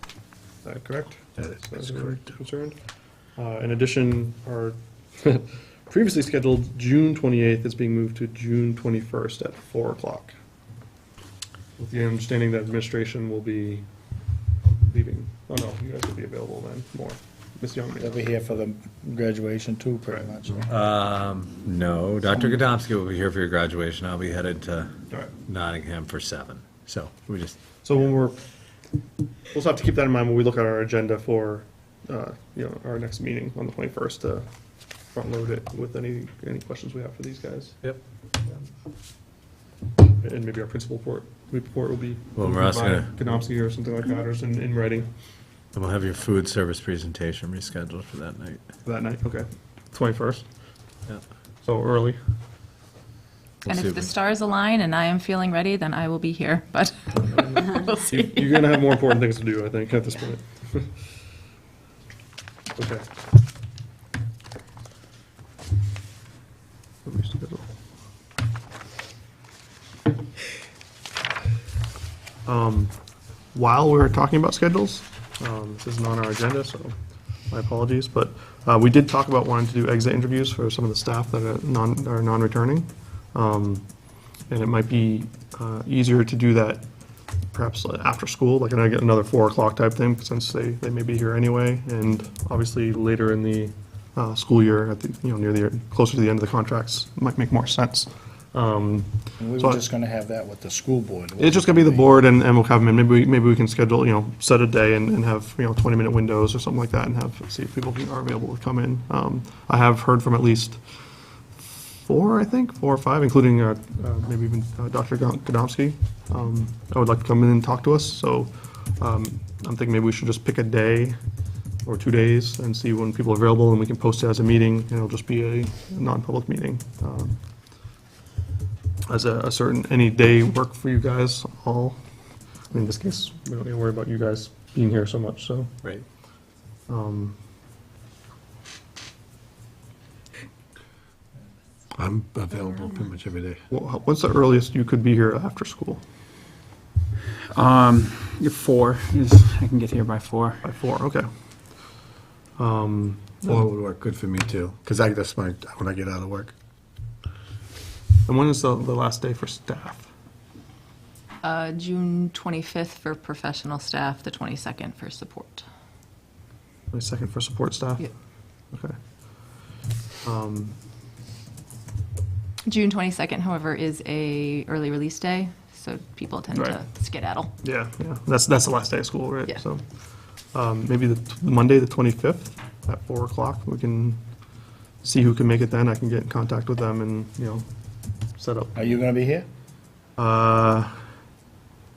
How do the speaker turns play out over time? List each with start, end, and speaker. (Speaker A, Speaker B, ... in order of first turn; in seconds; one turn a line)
Speaker A: 0.6-2.8
Speaker B: 1.4-2.2
Speaker A: 3.4-10.4
Speaker A: 11.8-13.9
Speaker A: 14.8-18.2
Speaker C: 18.0-20.7
Speaker B: 20.7-24.9
Speaker B: 25.5-27.6
Speaker A: 27.8-28.4
Speaker A: 29.5-34.5
Speaker A: 35.1-37.8
Speaker A: 40.2-45.1
Speaker B: 42.4-43.1
Speaker B: 45.7-48.6
Speaker A: 48.9-50.5
Speaker A: 51.6-52.2
Speaker B: 53.7-54.1
Speaker D: 53.7-58.6
Speaker A: 57.2-60.9
Speaker A: 62.8-63.0
Speaker A: 67.0-67.7
Speaker A: 72.5-72.9
Speaker A: 73.5-77.0
Speaker A: 77.5-83.9
Speaker A: 84.5-86.8
Speaker A: 87.5-99.8
Speaker C: 99.4-102.1
Speaker A: 101.4-110.8
Speaker A: 111.6-121.2
Speaker A: 121.8-127.4
Speaker A: 129.1-132.0
Speaker A: 132.7-135.7
Speaker A: 136.9-137.4
Speaker B: 142.0-143.5
Speaker E: 142.2-142.5
Speaker A: 143.7-146.0
Speaker F: 147.5-150.7
Speaker A: 150.6-151.3
Speaker A: 152.6-153.6
Speaker E: 153.7-156.5
Speaker A: 158.3-160.1
Speaker D: 161.4-165.7
Speaker A: 166.9-168.1
Speaker A: 170.2-170.8
Speaker D: 172.7-177.5
Speaker A: 176.5-176.8
Speaker A: 177.6-179.8
Speaker A: 180.5-184.2
Speaker A: 185.0-187.7
Speaker A: 188.4-188.9
Speaker C: 188.8-189.5
Speaker A: 190.2-190.9